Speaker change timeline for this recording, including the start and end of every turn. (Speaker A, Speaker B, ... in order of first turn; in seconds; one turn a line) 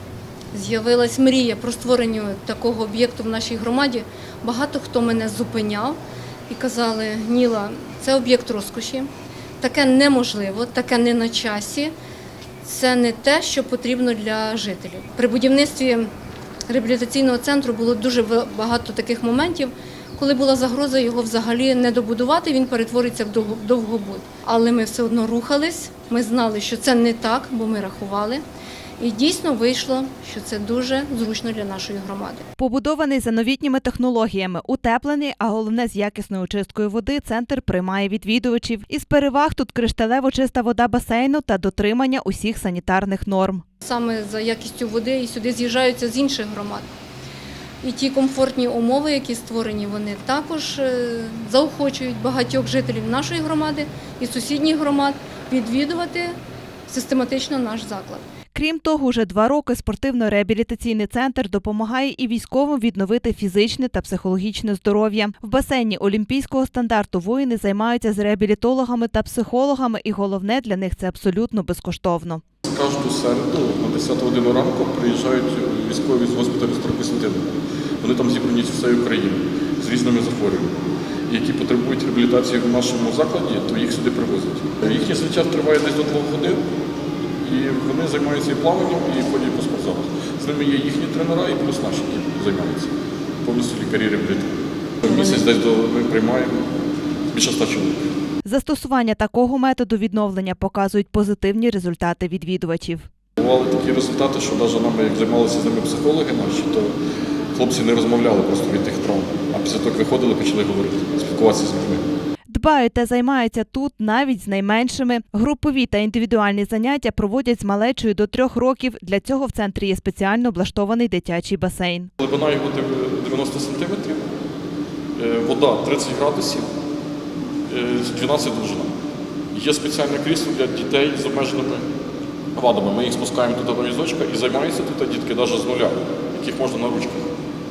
Speaker A: 0.5-6.0
Speaker A: 6.5-11.9
Speaker A: 12.6-16.1
Speaker A: 16.7-28.4
Speaker A: 29.0-32.4
Speaker B: 32.6-43.6
Speaker A: 43.8-46.9
Speaker A: 47.8-56.3
Speaker A: 56.9-58.2
Speaker B: 58.5-72.4
Speaker C: 72.7-80.7
Speaker C: 81.3-86.6
Speaker C: 87.4-92.9
Speaker C: 93.4-96.6
Speaker C: 97.3-98.0
Speaker B: 98.4-103.1
Speaker C: 103.4-106.9
Speaker C: 107.5-112.0
Speaker B: 112.5-122.1
Speaker C: 122.2-124.2
Speaker C: 125.2-126.7
Speaker C: 127.7-128.9
Speaker C: 129.5-131.9
Speaker C: 132.5-137.3